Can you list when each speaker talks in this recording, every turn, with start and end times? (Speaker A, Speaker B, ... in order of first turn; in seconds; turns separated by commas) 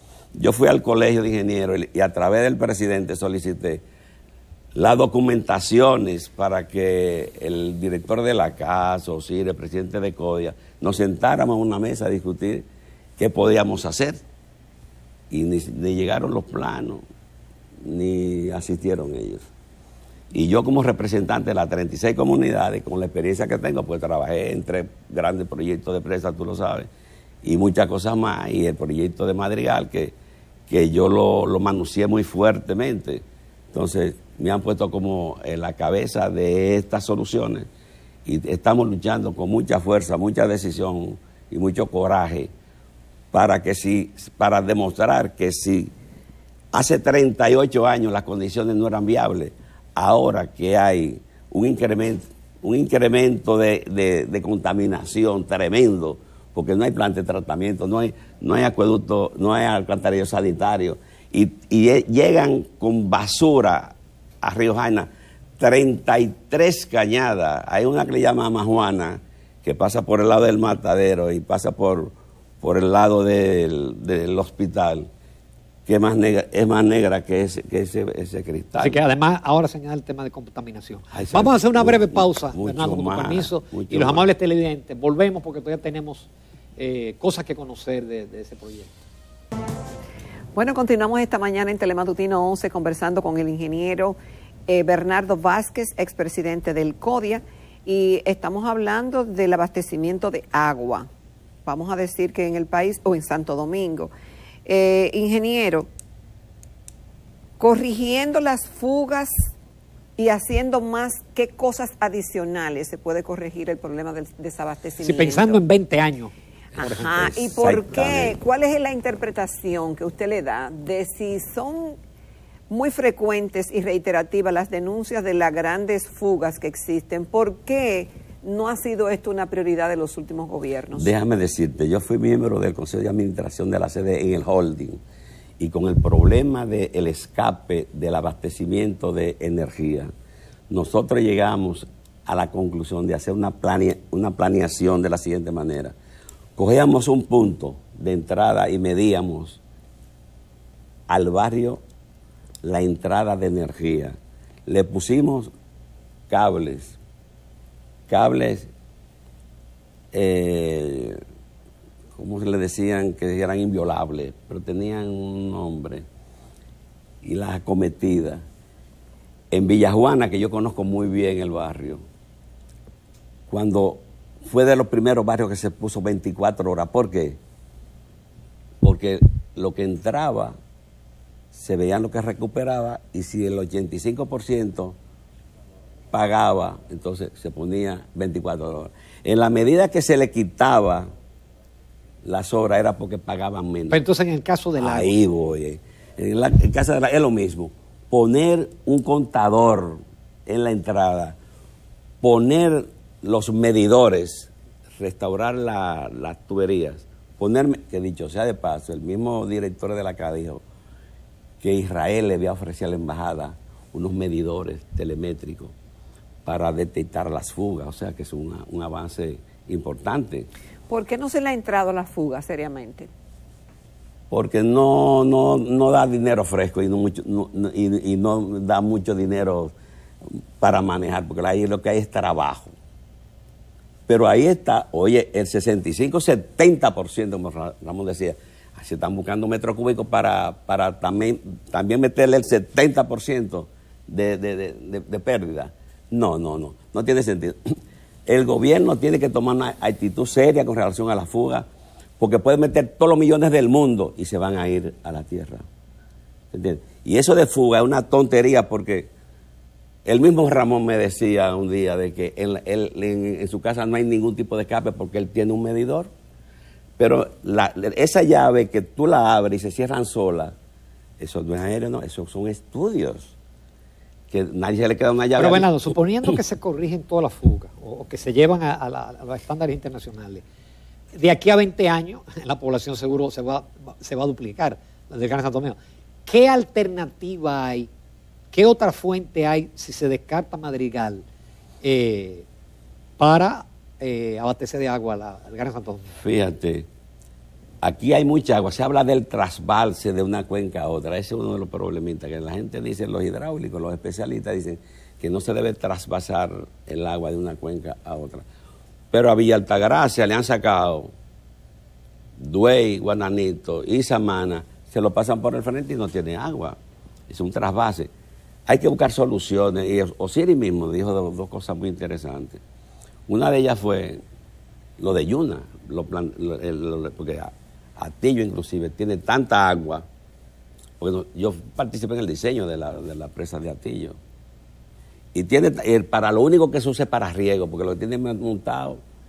Speaker A: 0.3-3.8, Speaker A: 4.7-12.7, Speaker A: 13.2-14.2, Speaker A: 15.3-17.0, Speaker A: 17.8-19.5, Speaker A: 20.3-26.9, Speaker A: 27.4-30.1, Speaker A: 30.7-37.7, Speaker A: 38.2-42.5, Speaker A: 43.3-45.9, Speaker A: 46.7-75.1, Speaker A: 75.9-79.0, Speaker B: 78.8-88.9, Speaker A: 81.1-84.3, Speaker C: 90.5-94.2, Speaker C: 94.7-101.1, Speaker C: 101.7-104.1, Speaker C: 104.7-105.9, Speaker C: 107.6-109.5, Speaker C: 110.2-115.6, Speaker B: 115.0-117.3, Speaker C: 116.8-122.0, Speaker A: 117.2-118.3, Speaker C: 122.7-131.1, Speaker A: 130.9-135.0, Speaker A: 135.6-140.1, Speaker A: 140.7-145.9, Speaker A: 146.6-149.6, Speaker A: 151.1-151.8, Speaker A: 152.6-155.5, Speaker A: 156.3-157.0, Speaker A: 158.1-158.7, Speaker A: 160.1-161.2, Speaker A: 162.1-166.0, Speaker A: 167.2-168.4, Speaker A: 169.5-172.0, Speaker A: 173.5-177.4, Speaker A: 178.8-180.5, Speaker A: 181.5-184.9, Speaker A: 186.1-191.1, Speaker A: 192.2-194.0, Speaker B: 193.9-195.2, Speaker A: 194.8-201.4, Speaker A: 202.2-210.6, Speaker A: 211.6-215.7, Speaker A: 216.4-220.5, Speaker C: 220.9-223.1, Speaker A: 224.3-229.7, Speaker A: 230.2-232.7, Speaker A: 234.1-251.7, Speaker A: 252.2-255.6, Speaker A: 256.5-259.1, Speaker A: 260.0-266.1, Speaker A: 267.0-270.5, Speaker A: 271.2-273.3, Speaker A: 274.3-276.4, Speaker B: 275.4-280.4, Speaker B: 281.1-287.9, Speaker B: 288.5-291.2, Speaker B: 291.8-292.4, Speaker B: 293.2-296.2, Speaker A: 296.2-296.9, Speaker A: 297.8-308.4, Speaker A: 309.1-311.1, Speaker A: 312.4-316.8, Speaker A: 317.3-318.1, Speaker A: 318.7-322.6, Speaker A: 323.3-324.2, Speaker A: 325.0-330.0, Speaker A: 331.0-334.2, Speaker A: 335.3-339.0